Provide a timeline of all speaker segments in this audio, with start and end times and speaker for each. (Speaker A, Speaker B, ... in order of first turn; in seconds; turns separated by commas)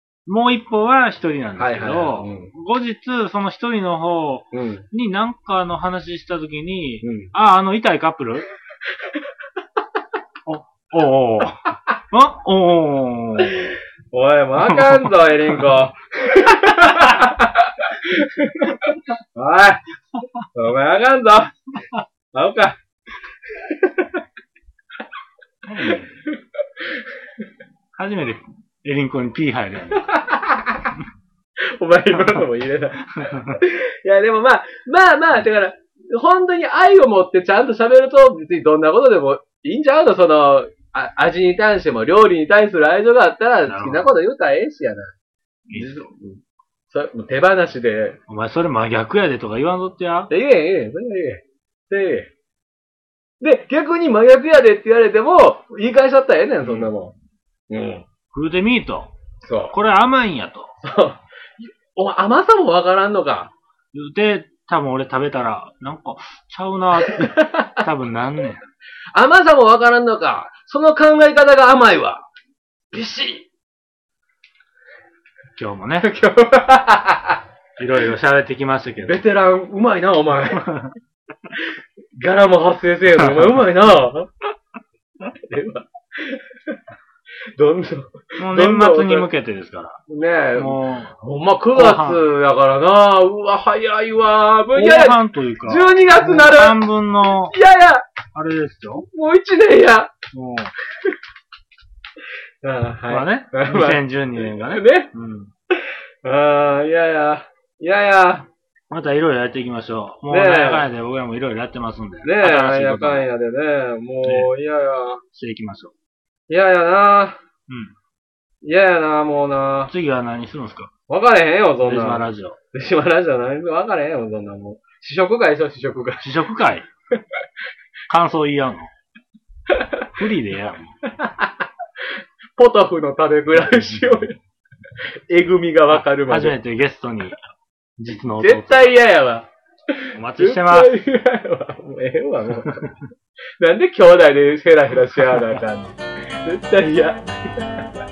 Speaker A: 0.2-8.5, Speaker B: 1.6-2.5, Speaker B: 4.5-4.8, Speaker B: 7.0-7.3, Speaker A: 10.4-13.7, Speaker B: 13.4-19.8, Speaker A: 14.6-15.8, Speaker A: 16.9-17.2, Speaker B: 20.5-21.6, Speaker B: 22.3-22.8, Speaker B: 23.6-24.2, Speaker A: 25.6-26.2, Speaker A: 27.9-30.1, Speaker B: 30.1-30.9, Speaker B: 31.8-45.1, Speaker A: 32.1-32.5, Speaker A: 33.1-33.6, Speaker A: 43.6-44.1, Speaker A: 45.7-46.1, Speaker B: 45.7-48.2, Speaker A: 48.3-50.3, Speaker B: 50.3-52.3, Speaker B: 53.4-57.1, Speaker A: 56.6-56.9, Speaker B: 57.7-58.0, Speaker A: 58.3-59.1, Speaker B: 59.4-59.7, Speaker A: 59.7-60.7, Speaker B: 60.8-63.5, Speaker A: 63.9-68.6, Speaker B: 67.0-67.9, Speaker B: 69.1-72.2, Speaker B: 72.9-73.5, Speaker A: 75.5-76.1, Speaker B: 76.0-77.4, Speaker A: 77.8-79.2, Speaker B: 79.0-80.7, Speaker A: 80.7-80.9, Speaker B: 81.5-84.3, Speaker A: 83.2-83.6, Speaker B: 85.4-86.4, Speaker B: 87.5-89.3, Speaker A: 88.4-90.0, Speaker B: 90.1-96.9, Speaker A: 90.5-91.1, Speaker A: 91.7-92.2, Speaker A: 94.7-97.6, Speaker B: 97.4-98.0, Speaker A: 98.3-99.0, Speaker B: 99.1-100.1, Speaker A: 100.3-100.7, Speaker B: 102.6-105.1, Speaker A: 103.1-105.5, Speaker B: 105.7-108.5, Speaker A: 108.9-113.3, Speaker B: 110.3-110.9, Speaker B: 112.2-115.2, Speaker A: 114.2-114.5, Speaker A: 115.3-115.9, Speaker B: 116.5-117.4, Speaker A: 117.7-117.9, Speaker B: 118.6-119.9, Speaker A: 119.9-120.9, Speaker B: 121.1-126.3, Speaker A: 121.8-122.6, Speaker A: 126.2-126.9, Speaker A: 128.1-128.9, Speaker B: 129.7-130.1, Speaker A: 130.1-131.1, Speaker B: 131.2-131.5, Speaker B: 132.6-134.4, Speaker A: 133.6-134.2, Speaker B: 135.3-136.6, Speaker A: 135.9-137.4, Speaker A: 138.0-138.9, Speaker B: 138.4-143.0, Speaker A: 140.1-140.9, Speaker B: 143.6-147.8, Speaker A: 145.3-145.6